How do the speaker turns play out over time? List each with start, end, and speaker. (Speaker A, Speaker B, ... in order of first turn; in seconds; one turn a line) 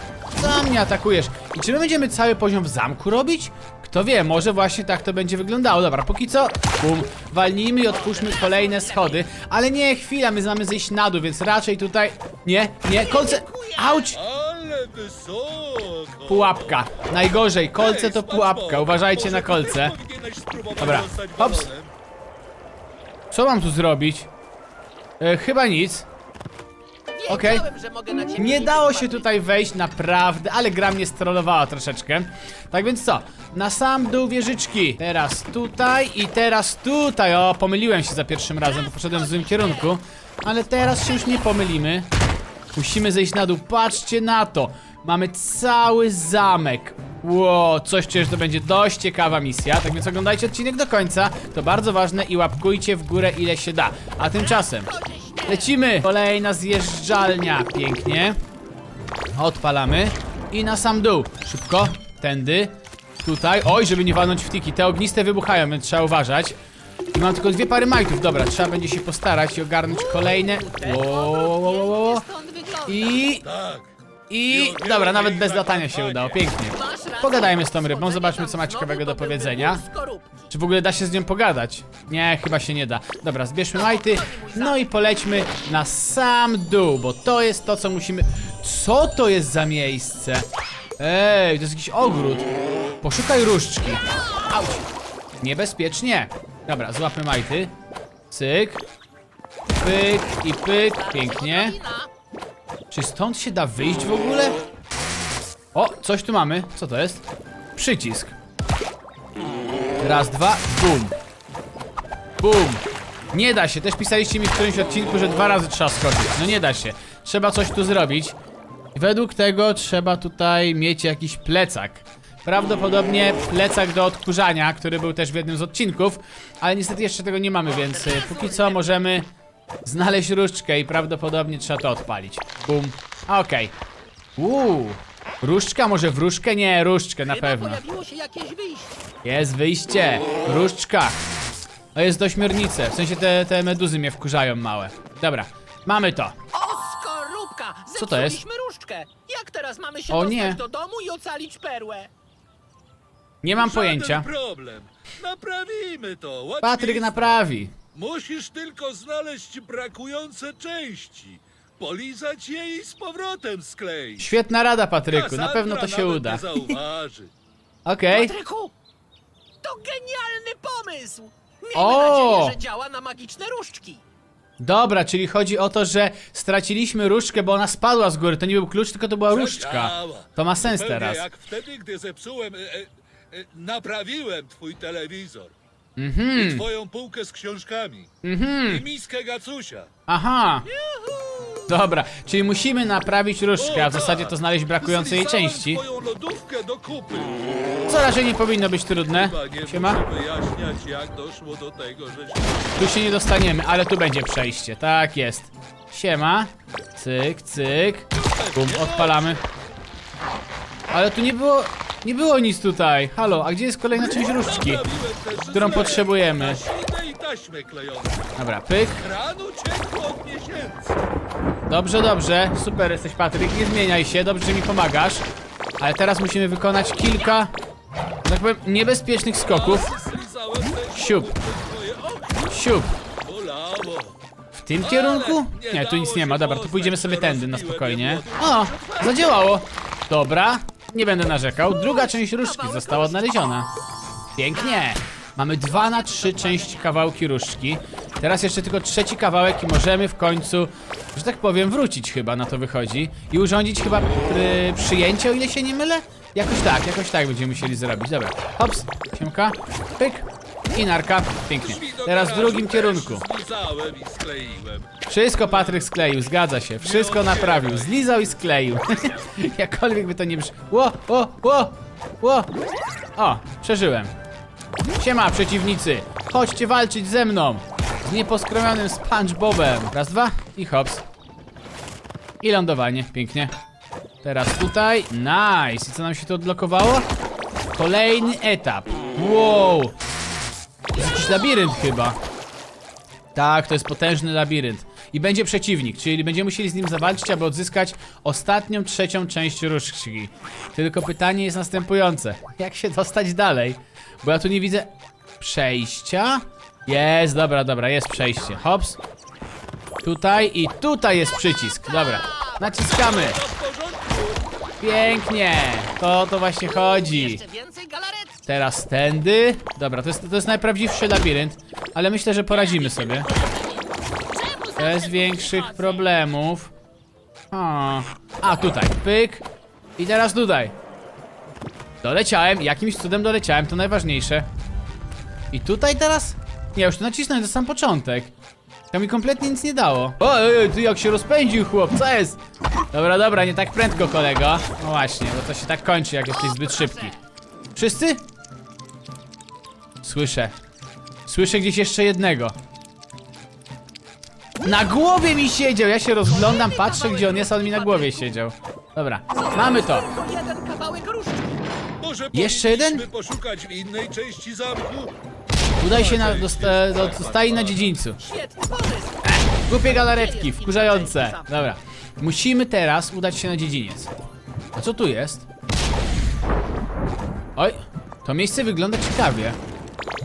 Speaker A: 0.3-14.2
Speaker B: 7.9-9.2
Speaker B: 12.9-14.1
Speaker C: 14.1-17.0
Speaker A: 16.3-19.9
Speaker C: 17.8-21.9
Speaker A: 20.8-21.7
Speaker A: 23.3-24.3
Speaker A: 25.2-26.1
Speaker B: 27.1-29.3
Speaker A: 27.3-27.6
Speaker A: 28.3-42.1
Speaker B: 38.6-40.0
Speaker A: 42.7-54.9
Speaker B: 54.4-55.8
Speaker A: 55.5-58.4
Speaker A: 59.4-66.5
Speaker A: 67.1-72.2
Speaker B: 69.9-73.4
Speaker A: 72.9-73.4
Speaker C: 73.4-73.9
Speaker A: 74.3-79.8
Speaker C: 74.5-76.5
Speaker B: 76.7-80.5
Speaker A: 80.5-90.5
Speaker B: 83.7-84.9
Speaker A: 91.0-92.5
Speaker A: 93.0-94.8
Speaker B: 94.0-94.8
Speaker A: 95.4-97.7
Speaker A: 98.3-98.8
Speaker A: 99.7-101.8
Speaker B: 100.7-102.1
Speaker A: 102.9-104.6
Speaker A: 105.7-107.2
Speaker A: 107.8-108.3
Speaker A: 110.0-111.1
Speaker A: 112.4-118.3
Speaker A: 118.9-129.3
Speaker B: 127.6-128.8
Speaker A: 129.8-133.7
Speaker A: 134.4-137.8
Speaker B: 137.2-139.0
Speaker A: 139.2-141.2
Speaker A: 141.9-146.3
Speaker B: 146.5-152.1
Speaker A: 148.0-148.4
Speaker A: 150.1-150.6
Speaker A: 153.4-154.3
Speaker C: 153.5-164.3
Speaker A: 156.6-157.7
Speaker A: 164.2-166.7
Speaker C: 165.1-167.3
Speaker A: 167.8-168.3
Speaker B: 168.1-168.7
Speaker B: 169.6-174.0
Speaker A: 171.7-172.6
Speaker A: 174.6-181.2
Speaker C: 179.3-185.5
Speaker A: 186.0-186.7
Speaker C: 186.3-188.1
Speaker A: 188.2-188.8
Speaker C: 188.7-189.9
Speaker A: 190.1-190.7
Speaker B: 190.7-191.7
Speaker A: 191.7-195.8
Speaker C: 193.6-197.9
Speaker A: 197.9-200.0
Speaker C: 199.1-202.9
Speaker A: 202.8-209.4
Speaker C: 208.1-209.4
Speaker A: 210.9-214.8
Speaker C: 214.0-218.3
Speaker A: 215.5-216.6
Speaker A: 218.4-219.0
Speaker C: 218.9-221.0
Speaker A: 221.7-225.2
Speaker A: 225.8-227.5
Speaker A: 228.2-229.9
Speaker C: 229.4-232.6
Speaker A: 230.9-231.3
Speaker A: 232.5-232.9
Speaker C: 233.2-234.1
Speaker A: 234.5-243.7
Speaker C: 234.8-239.5
Speaker B: 241.7-243.5
Speaker A: 244.3-263.2
Speaker B: 244.6-244.9
Speaker B: 245.7-246.9
Speaker C: 261.6-265.9
Speaker A: 265.1-272.5
Speaker C: 266.7-268.5
Speaker A: 273.1-274.1
Speaker A: 275.0-281.0
Speaker A: 282.4-283.5
Speaker A: 284.2-287.1
Speaker A: 287.8-289.9
Speaker A: 290.9-292.2
Speaker A: 293.3-309.0
Speaker A: 310.0-313.4
Speaker B: 311.8-312.7
Speaker C: 312.8-314.4
Speaker A: 314.8-317.4
Speaker B: 316.7-318.4
Speaker A: 318.4-323.3
Speaker B: 322.5-326.1
Speaker A: 324.8-326.7
Speaker A: 327.5-329.4
Speaker A: 330.0-330.7
Speaker A: 332.0-334.5
Speaker A: 335.5-338.3
Speaker A: 338.9-342.4
Speaker A: 342.9-347.1
Speaker B: 346.3-347.2
Speaker A: 347.8-348.2
Speaker A: 350.0-350.5
Speaker A: 351.3-352.6
Speaker A: 354.6-360.1
Speaker B: 356.3-358.3
Speaker B: 359.4-361.6
Speaker C: 362.0-365.1
Speaker A: 362.3-363.1
Speaker A: 365.8-368.2
Speaker C: 365.8-367.9
Speaker B: 368.2-371.6
Speaker A: 369.2-374.1
Speaker A: 374.8-375.4
Speaker A: 377.6-379.6